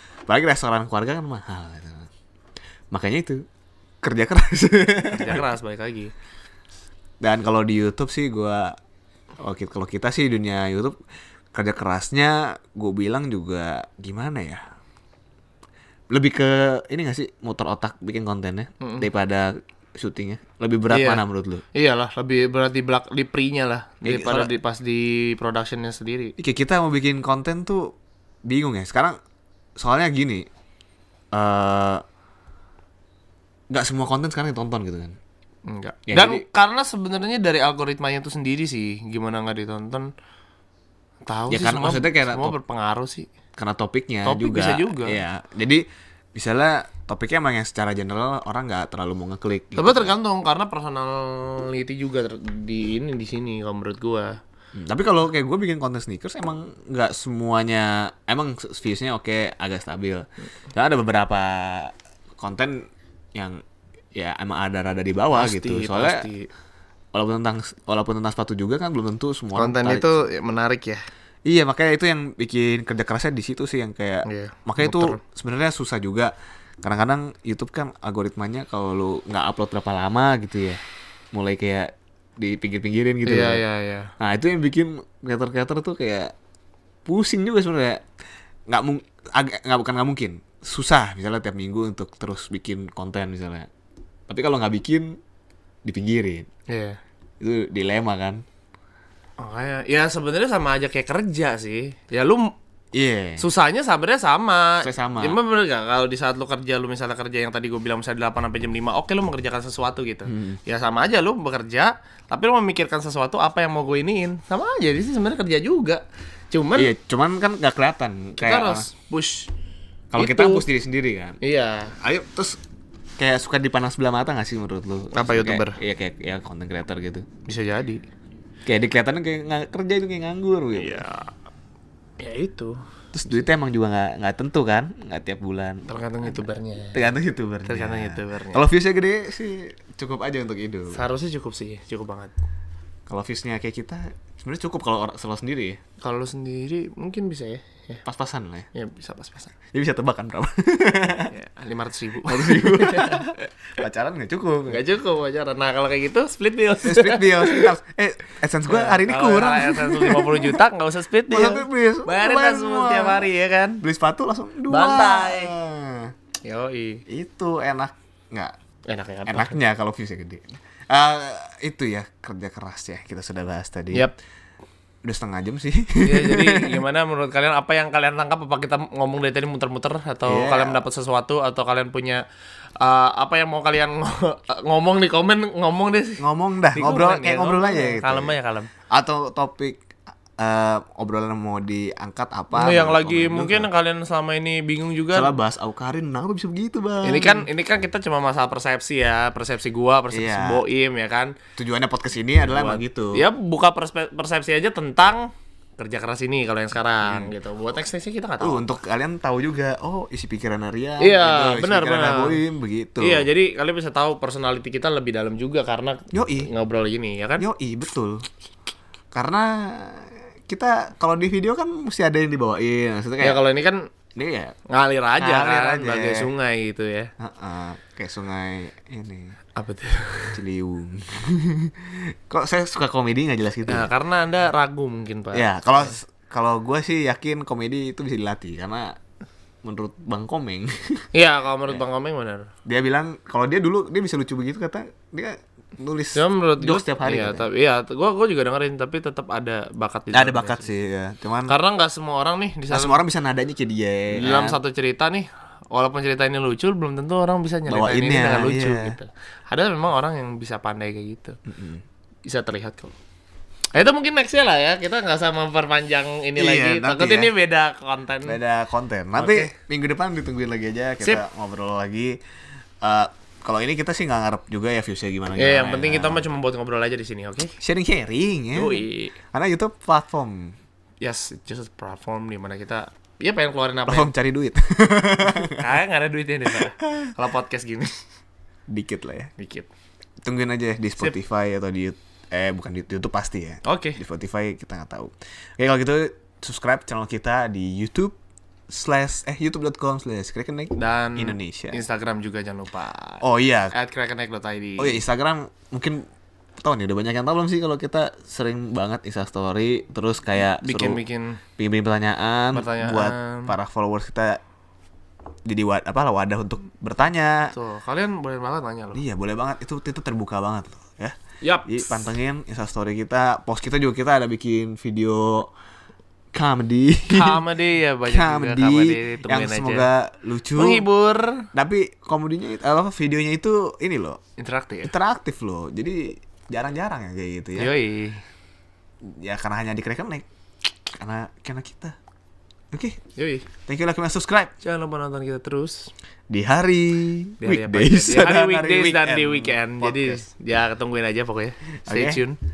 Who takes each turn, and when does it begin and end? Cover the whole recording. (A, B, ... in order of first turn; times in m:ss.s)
0:00.3-0:02.1 A
0:02.9-0:03.4 A
0:04.0-0:05.4 A
0:05.1-0:06.1 B
0:07.2-0:08.8 A
0:09.4-0:11.0 A
0:11.5-0:14.6 A
0:16.1-0:21.6 A
0:18.8-0:19.1 B
0:20.9-0:21.2 B
0:21.7-0:26.3 B
0:24.0-0:24.5 A
0:26.4-0:27.9 A
0:28.4-0:29.2 A
0:29.8-0:30.5 A
0:31.3-0:32.0 A
0:33.7-0:35.2 A
0:35.7-0:40.1 B
0:36.1-0:36.4 A
0:41.3-0:43.3 B
0:41.5-0:42.6 A
0:43.6-0:50.1 A
0:44.2-0:45.2 B
0:49.8-0:54.4 B
0:54.8-1:03.6 A
1:04.2-1:06.2 A
1:05.3-1:06.5 B
1:07.1-1:10.2 A
1:09.6-1:11.0 B
1:11.5-1:20.8 A
1:14.3-1:15.2 B
1:21.3-1:23.6 A
1:23.3-1:24.1 B
1:24.2-1:26.3 A
1:27.1-1:28.0 A
1:28.7-1:33.7 A
1:34.3-1:35.2 A
1:35.8-1:36.5 A
1:36.7-1:37.0 B
1:37.4-1:38.4 A
1:39.4-1:42.5 B
1:42.9-1:43.4 A
1:43.4-1:56.9 B
1:44.8-1:45.4 A
1:50.3-1:50.6 A
1:56.8-1:58.9 A
1:58.4-1:59.5 B
2:00.1-2:01.4 A
2:00.2-2:00.6 B
2:01.4-2:02.0 B
2:02.0-2:02.6 A
2:03.2-2:07.3 A
2:05.1-2:05.8 B
2:07.5-2:08.0 B
2:08.7-2:11.0 A
2:10.8-2:11.3 B
2:12.2-2:12.8 B
2:13.1-2:16.4 A
2:15.9-2:17.0 B
2:16.9-2:21.0 A
2:17.6-2:18.7 B
2:20.9-2:22.3 B
2:23.1-2:25.8 A
2:26.0-2:28.0 B
2:28.0-2:28.7 A
2:28.7-2:29.5 B
2:29.7-2:31.3 A
2:31.3-2:33.4 B
2:32.3-2:34.8 A
2:34.7-2:37.7 B
2:36.8-2:40.6 A
2:38.7-2:43.8 B
2:41.3-2:43.3 A
2:43.8-2:46.1 A
2:44.7-2:45.5 B
2:46.4-2:47.0 B
2:47.1-2:48.6 A
2:48.9-2:49.6 B
2:49.3-2:54.1 A
2:55.0-2:56.8 A
2:56.0-3:02.2 B
3:00.3-3:00.8 A
3:02.8-3:08.7 B
3:06.2-3:08.4 A
3:08.9-3:09.8 A
3:10.4-3:13.7 A
3:12.5-3:15.4 B
3:15.1-3:17.5 A
3:17.0-3:21.4 B
3:20.1-3:20.6 A
3:21.6-3:23.2 A
3:22.4-3:28.7 B
3:27.1-3:27.3 A
3:28.4-3:33.3 A
3:31.0-3:32.4 B
3:33.0-3:37.4 B
3:36.1-3:36.5 A
3:37.4-3:38.3 A
3:39.1-3:43.4 A
3:43.2-3:43.9 B
3:44.2-3:44.6 A
3:44.7-3:47.1 B
3:45.2-3:46.3 A
3:47.2-3:49.4 A
3:49.6-3:50.4 B
3:50.3-3:53.9 A
3:53.7-3:55.9 B
3:55.3-3:59.0 A
3:59.6-4:01.1 A
4:01.1-4:02.5 B
4:02.7-4:07.5 A
4:06.2-4:10.7 B
4:10.1-4:11.6 A
4:11.5-4:13.0 B
4:12.7-4:14.6 A
4:14.1-4:21.4 B
4:17.7-4:19.0 A
4:21.5-4:21.8 A
4:22.2-4:22.9 B
4:23.7-4:28.4 B
4:26.4-4:27.3 A
4:28.2-4:32.2 A
4:29.2-4:29.6 B
4:32.8-4:36.2 A
4:35.4-4:37.6 B
4:37.6-4:40.6 A
4:38.5-4:39.2 B
4:41.0-4:44.1 B
4:43.9-4:45.8 A
4:45.4-4:48.0 B
4:46.5-4:47.1 A
4:48.7-4:49.3 A
4:49.4-4:49.7 B
4:50.2-4:58.2 A
4:53.6-4:54.0 B
4:58.7-5:01.8 A
5:00.8-5:05.0 B
5:03.2-5:03.7 A
5:04.8-5:06.0 A
5:06.6-5:11.0 A
5:10.6-5:11.4 B
5:11.6-5:14.4 A
5:12.5-5:13.6 B
5:15.5-5:17.6 A
5:17.5-5:19.0 B
5:18.9-5:25.5 A
5:21.4-5:22.0 B
5:26.3-5:27.4 A
5:27.1-5:29.9 B
5:28.1-5:30.8 A
5:30.6-5:31.5 B
5:31.5-5:34.2 A
5:34.4-5:34.9 B
5:34.8-5:37.7 A
5:37.6-5:38.2 B
5:39.0-5:40.3 A
5:40.9-5:42.0 A
5:42.7-5:43.0 A
5:43.2-5:43.5 B
5:43.7-5:44.5 A
5:44.6-5:45.9 B
5:46.3-5:50.2 A
5:47.4-5:52.4 B
5:51.8-5:52.2 A